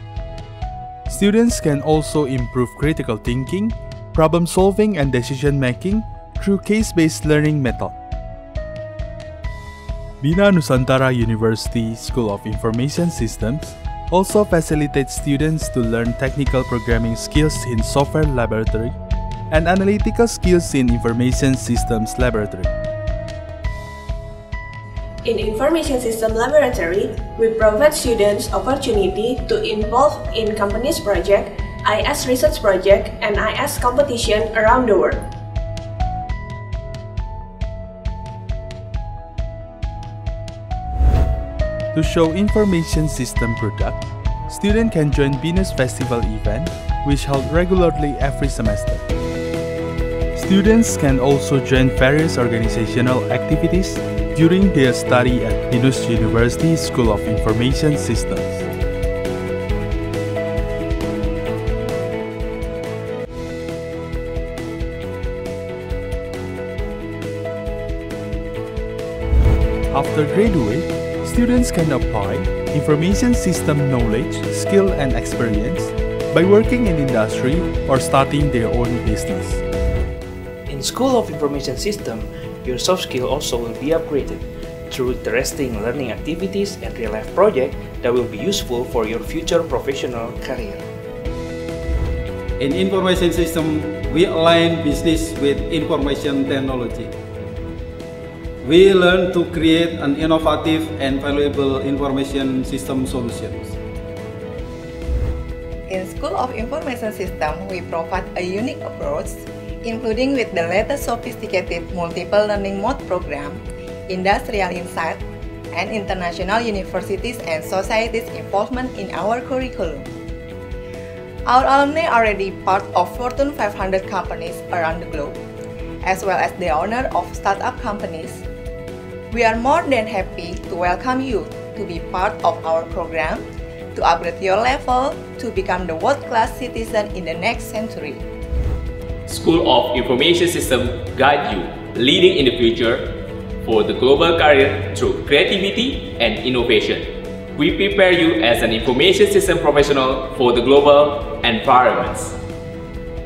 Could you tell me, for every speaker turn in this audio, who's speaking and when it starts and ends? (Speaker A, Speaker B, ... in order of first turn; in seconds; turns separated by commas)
Speaker A: 1.1-8.0, Speaker A: 10.2-19.0, Speaker A: 19.5-22.7, Speaker B: 25.3-35.2, Speaker A: 41.9-49.1, Speaker A: 50.3-58.7, Speaker A: 69.9-79.6, Speaker C: 80.7-90.8, Speaker D: 92.6-97.1, Speaker D: 98.6-103.8, Speaker E: 105.9-115.2, Speaker E: 115.7-120.1, Speaker E: 121.5-125.4, Speaker E: 126.0-128.4, Speaker E: 129.3-133.4, Speaker E: 133.9-138.2, Speaker F: 139.3-143.1, Speaker F: 143.6-152.3